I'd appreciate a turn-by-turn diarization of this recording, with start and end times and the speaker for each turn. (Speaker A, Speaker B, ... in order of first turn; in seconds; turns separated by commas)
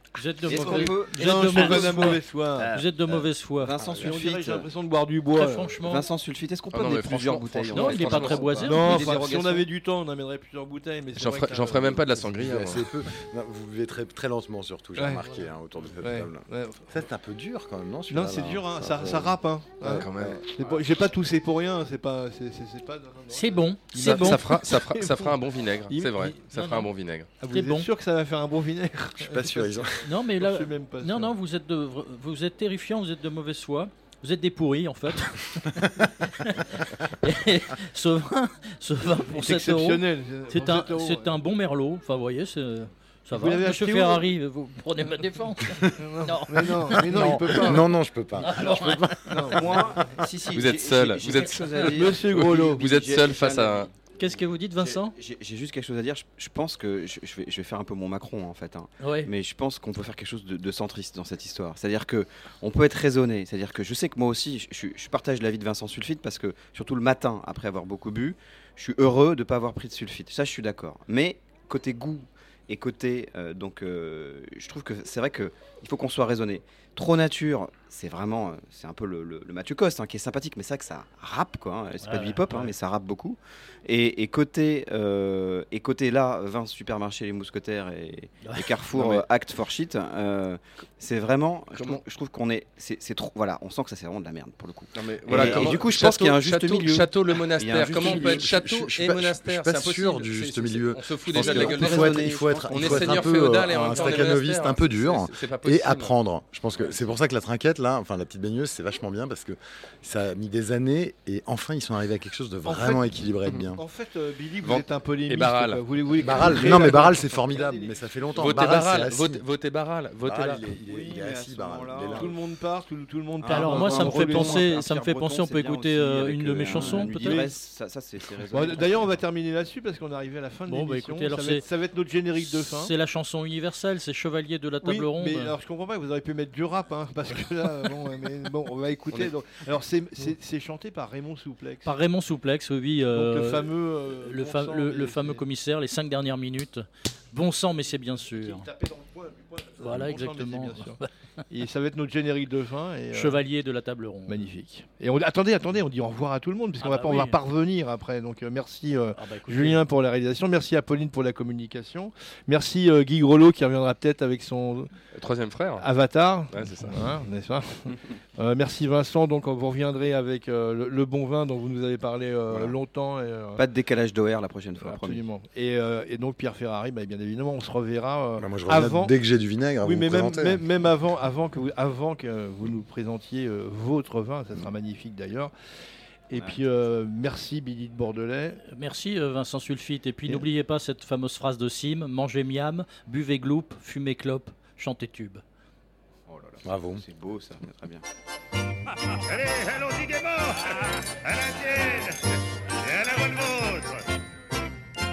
Speaker A: 0.2-3.7, Speaker B: 0.4-4.7, Speaker C: 0.5-2.8, Speaker C: 3.9-5.8, Speaker A: 5.4-6.1, Speaker B: 5.9-9.7, Speaker D: 6.7-8.6, Speaker A: 7.7-9.1, Speaker C: 8.7-12.6, Speaker D: 11.2-12.9, Speaker E: 12.4-20.4, Speaker C: 15.0-15.4, Speaker C: 16.0-16.9, Speaker C: 18.1-25.4, Speaker D: 19.8-20.7, Speaker A: 23.3-24.4, Speaker D: 24.0-27.3, Speaker C: 25.9-26.4, Speaker A: 26.5-26.9, Speaker C: 27.4-31.3, Speaker A: 27.5-27.9, Speaker E: 29.2-30.1, Speaker A: 30.0-47.8, Speaker C: 39.3-41.4, Speaker C: 43.3-44.3, Speaker C: 46.0-47.9, Speaker E: 47.0-49.8, Speaker A: 48.4-49.4, Speaker C: 49.3-49.8, Speaker B: 49.5-53.9, Speaker D: 50.5-53.9, Speaker C: 51.8-52.9, Speaker A: 54.2-55.1, Speaker B: 54.8-98.7, Speaker A: 59.0-59.3, Speaker A: 82.0-82.7, Speaker D: 89.0-89.2, Speaker D: 91.8-92.0, Speaker D: 95.0-106.1, Speaker E: 95.3-95.8, Speaker E: 97.8-113.8, Speaker B: 101.3-104.1, Speaker C: 104.1-104.4, Speaker C: 112.7-113.1, Speaker C: 113.8-119.1, Speaker D: 114.6-117.2, Speaker E: 116.2-119.5, Speaker D: 118.4-120.7, Speaker E: 120.2-122.3, Speaker B: 120.8-122.4, Speaker C: 122.2-124.8, Speaker B: 123.4-129.2, Speaker A: 123.5-127.5, Speaker C: 126.7-127.5, Speaker C: 128.5-132.9, Speaker A: 130.7-131.7, Speaker A: 132.4-135.6, Speaker C: 134.8-141.9, Speaker A: 141.8-143.7, Speaker C: 143.1-145.4, Speaker A: 144.2-148.7, Speaker C: 148.3-151.0, Speaker A: 149.8-151.1, Speaker C: 151.5-153.4, Speaker A: 153.1-154.4, Speaker C: 154.3-164.9, Speaker A: 156.8-157.4, Speaker A: 159.2-159.8, Speaker D: 165.1-165.9, Speaker C: 165.8-173.6, Speaker D: 166.5-167.0, Speaker B: 173.6-175.2, Speaker C: 174.8-179.2, Speaker E: 178.4-180.7, Speaker C: 179.8-185.5, Speaker C: 186.3-188.6, Speaker B: 186.3-186.6, Speaker A: 188.7-195.4, Speaker B: 196.3-198.0, Speaker E: 196.7-197.1, Speaker F: 199.2-202.2, Speaker F: 202.8-204.0